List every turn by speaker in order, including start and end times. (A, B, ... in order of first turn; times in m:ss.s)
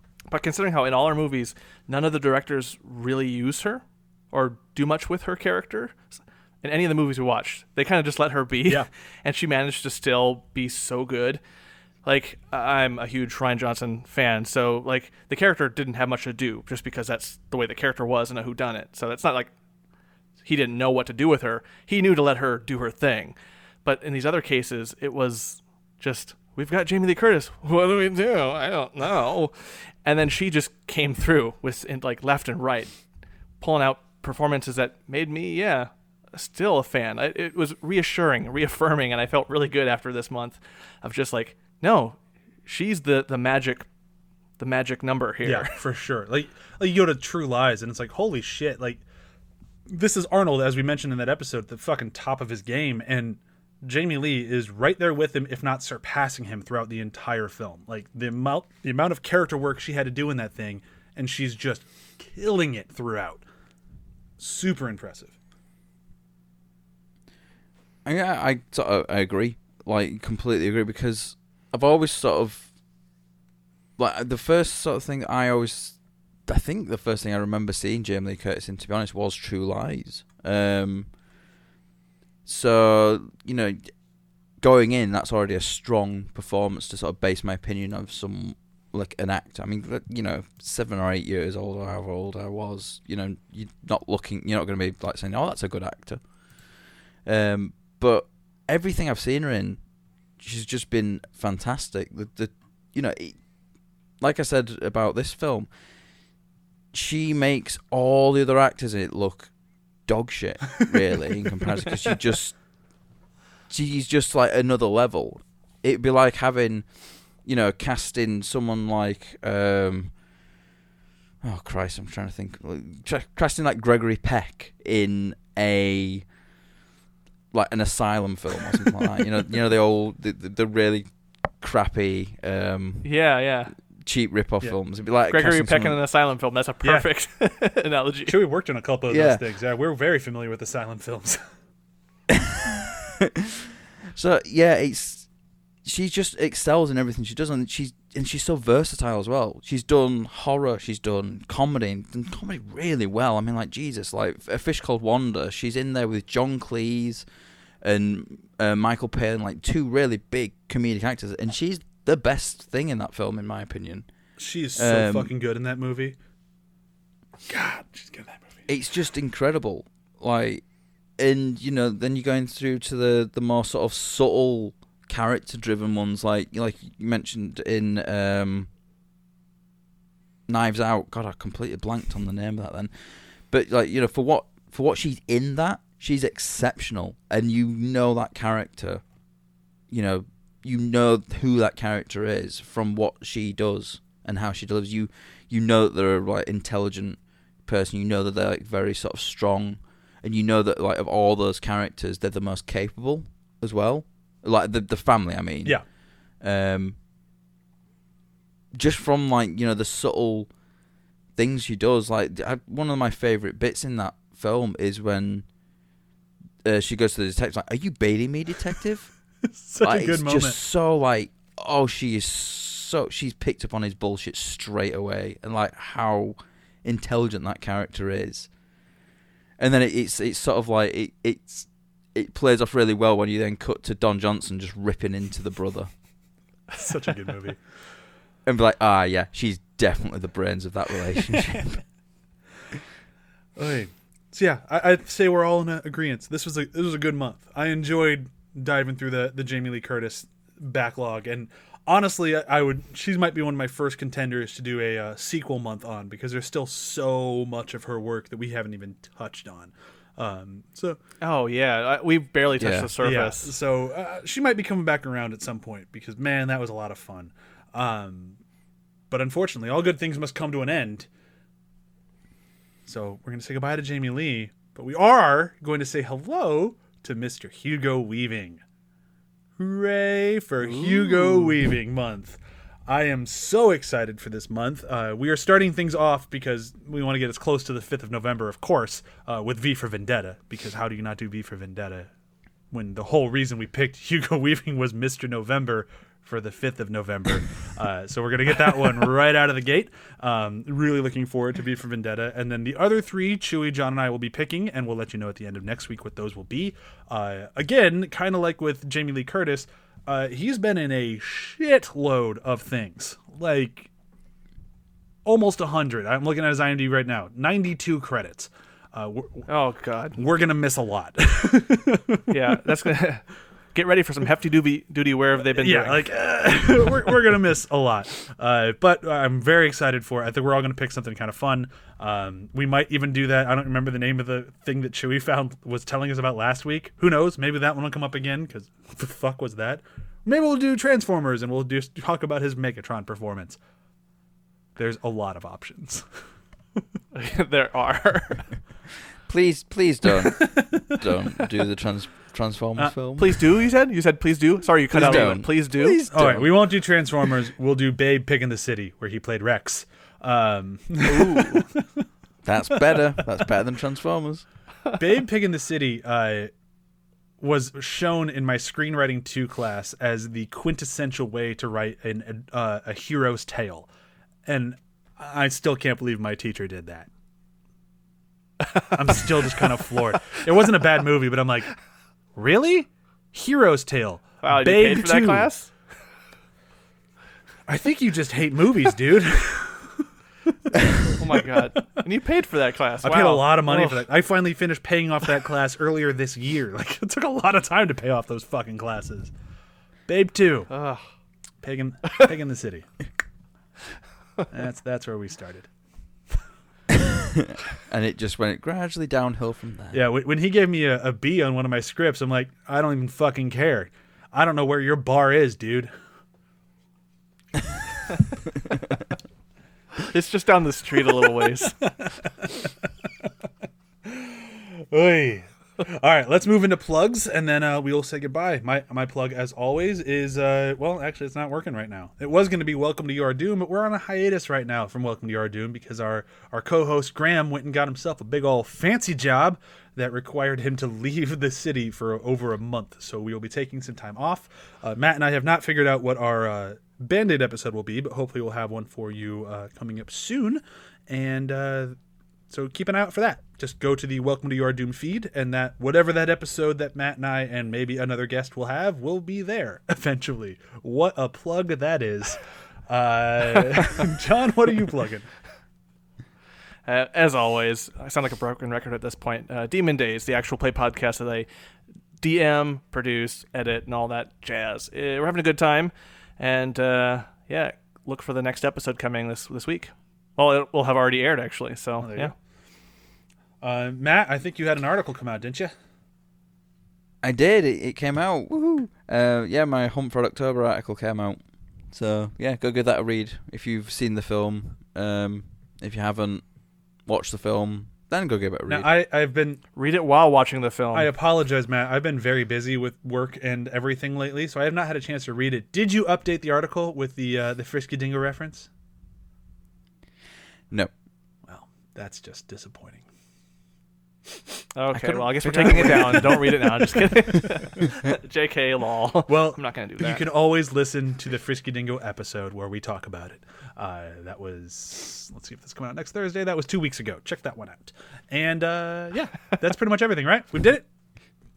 0:00.3-0:11.4 A
0:12.0-0:19.5 A
0:20.4-0:33.0 A
0:33.6-0:43.9 A
0:44.6-0:45.8 A
0:45.4-0:49.0 B
0:49.9-1:03.4 B
1:04.4-1:05.3 B
1:08.0-1:12.7 C
1:14.0-1:21.1 C
1:22.4-1:23.9 C
1:24.6-1:36.4 C
1:37.2-1:39.8 C
1:40.4-1:43.5 C
1:44.2-1:45.7 C
1:46.9-1:49.5 C
1:50.0-1:52.6 C
1:53.7-2:00.1 C
2:01.4-2:06.2 C
2:07.5-2:13.1 C
2:13.0-2:13.7 A
2:14.0-2:16.0 C
2:15.3-2:18.3 A
2:18.3-2:21.4 B
2:19.1-2:19.4 C
2:22.3-2:23.3 C
2:24.1-2:25.3 C
2:25.8-2:37.2 C
2:37.8-2:44.1 C
2:44.4-2:46.2 B
2:44.8-2:45.3 C
2:47.5-2:48.6 B
2:48.7-2:50.6 C
2:51.2-2:58.7 C
3:00.5-3:09.0 C
3:09.9-3:25.8 C
3:26.4-3:27.0 C
3:28.7-3:30.5 C
3:31.4-3:35.4 C
3:36.6-3:39.1 C
3:39.6-3:40.6 B
3:39.8-3:48.5 C
3:49.6-3:55.9 C
3:56.8-3:57.6 B
3:58.4-4:01.8 C
4:03.6-4:21.0 B
4:21.2-4:23.5 A
4:22.6-4:22.9 C
4:23.0-4:28.4 B
4:29.1-4:31.1 B
4:32.8-4:38.6 B
4:39.6-4:52.1 B
4:52.7-5:13.9 B
5:15.2-5:19.5 B
5:19.5-5:20.2 A
5:20.2-5:22.3 B
5:22.3-5:26.1 A
5:25.5-5:43.6 B
5:44.8-5:46.1 B
5:47.1-5:48.5 A
5:49.3-5:53.3 C
5:50.2-5:50.8 B
5:53.2-5:56.0 A
5:54.9-5:55.4 B
5:54.9-5:56.5 C
5:56.1-6:01.8 B
6:01.0-6:01.6 A
6:02.4-6:04.4 C
6:05.0-6:06.5 B
6:07.4-6:13.9 B
6:14.4-6:17.1 B
6:18.9-6:21.7 B
6:22.3-6:25.5 B
6:24.4-6:25.7 A
6:27.7-6:31.7 B
6:31.0-6:34.1 A
6:33.0-6:39.3 B
6:40.1-6:40.7 B
6:40.7-6:41.0 A
6:41.6-6:42.8 B
6:44.5-6:45.7 B
6:47.8-6:50.0 C
6:49.9-6:55.9 B
7:00.0-7:01.8 A
7:01.9-7:02.7 B
7:04.0-7:32.0 B
7:32.5-7:45.3 B
7:46.8-7:51.5 A
7:52.2-8:02.3 A
8:02.0-8:02.3 B
8:03.6-8:05.7 B
8:07.2-8:16.4 C
8:17.0-8:18.9 C
8:18.7-8:19.6 B
8:19.8-8:21.1 A
8:20.9-8:28.7 B
8:31.4-8:33.0 B
8:34.7-8:40.2 A
8:34.9-8:36.5 C
8:35.5-8:36.2 B
8:39.3-8:50.9 B